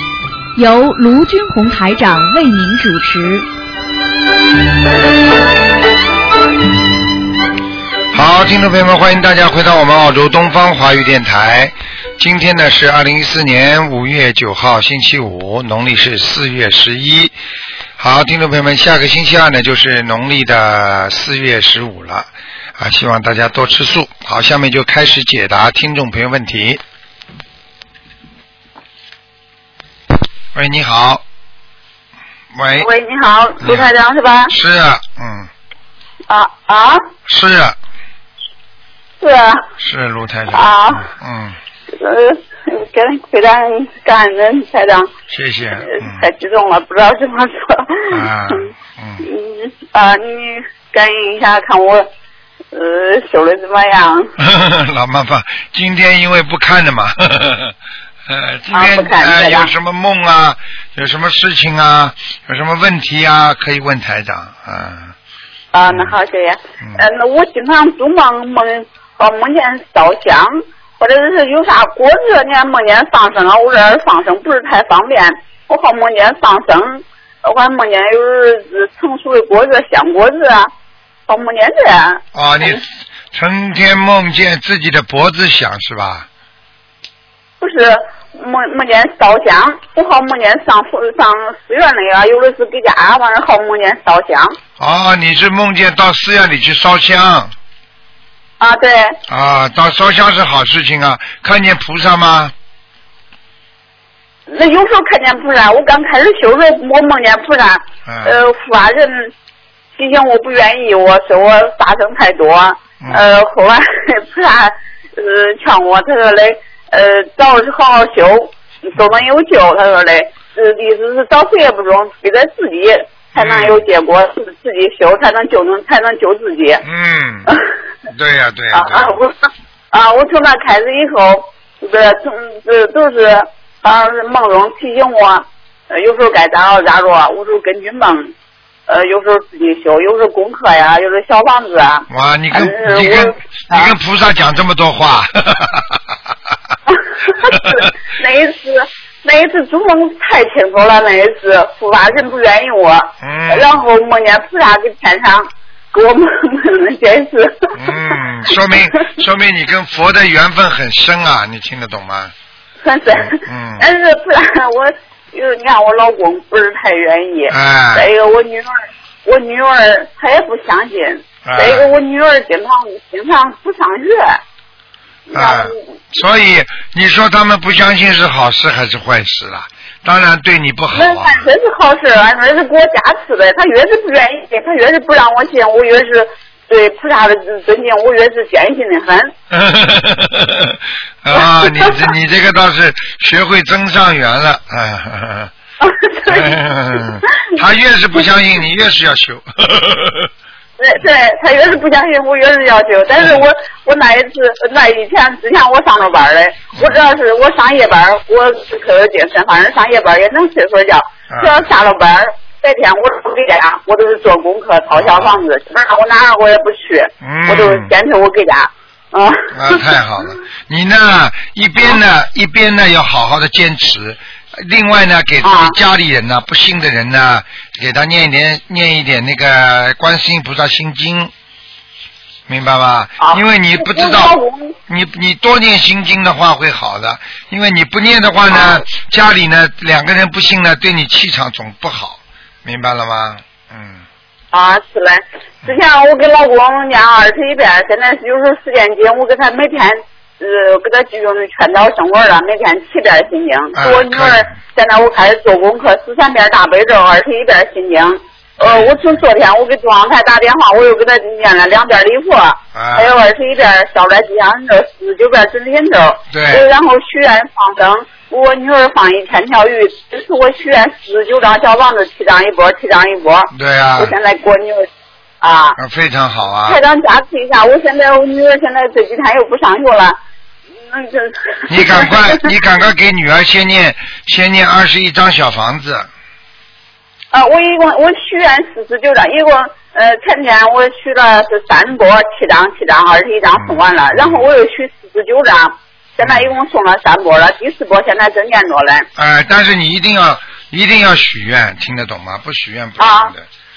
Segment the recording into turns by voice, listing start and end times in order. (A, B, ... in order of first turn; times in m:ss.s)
0:00.6-0:03.5 A
0:08.1-0:17.4 B
0:18.0-0:26.8 B
0:30.5-0:31.2 B
0:32.5-0:32.9 B
0:32.8-0:34.5 C
0:33.6-0:33.9 B
0:34.5-0:35.5 B
0:36.3-0:37.1 C
0:37.3-0:37.8 B
0:39.2-0:39.7 C
0:39.8-0:41.6 B
0:40.5-0:41.1 C
0:41.9-0:45.1 C
0:45.3-0:46.2 B
0:45.9-0:48.3 C
0:48.1-0:49.3 B
0:49.2-0:52.1 C
0:52.7-0:54.3 C
0:54.4-0:57.8 B
0:58.3-1:05.2 B
0:58.7-0:59.7 C
1:05.7-1:20.7 C
1:05.9-1:06.2 B
1:21.3-1:22.8 C
1:22.4-1:26.3 B
1:27.6-1:34.6 C
1:34.8-1:37.5 B
1:38.6-1:39.2 C
1:39.3-1:42.5 B
1:44.5-1:49.3 C
1:48.1-1:48.4 B
1:50.0-2:06.8 C
2:03.3-2:03.8 B
2:06.8-2:07.5 B
2:08.1-2:09.2 B
2:08.7-2:09.4 C
2:09.9-2:18.3 C
2:18.9-2:23.9 C
2:22.1-2:26.0 B
2:26.9-2:38.2 C
2:27.4-2:27.9 B
2:33.2-2:33.8 B
2:37.8-2:42.3 B
2:42.8-2:54.4 C
2:43.1-2:43.9 B
2:47.5-2:48.1 B
2:51.4-2:51.9 B
2:55.3-2:55.8 C
2:55.3-3:01.4 B
3:00.9-3:09.3 C
3:09.5-3:15.5 B
3:11.3-3:12.1 C
3:15.8-3:16.6 C
3:16.3-3:20.3 B
3:20.8-3:40.0 C
3:26.8-3:27.0 B
3:31.3-3:31.7 B
3:34.9-3:35.4 B
3:37.2-3:37.9 B
3:39.5-3:51.3 B
3:45.4-3:45.8 C
3:52.5-3:54.4 B
3:53.2-3:54.8 C
3:54.9-4:04.0 B
3:58.5-3:58.8 C
4:04.5-4:34.9 C
4:13.8-4:14.5 B
4:18.6-4:19.0 B
4:22.7-4:23.2 B
4:26.3-4:26.7 B
4:33.5-4:34.2 B
4:35.4-4:35.8 C
4:35.8-4:36.8 B
4:36.7-4:40.2 C
4:40.9-4:42.5 C
4:41.7-4:46.1 B
4:47.3-4:59.1 C
4:53.6-4:54.4 B
4:56.2-4:56.5 B
4:59.2-5:03.5 B
5:03.0-5:03.3 C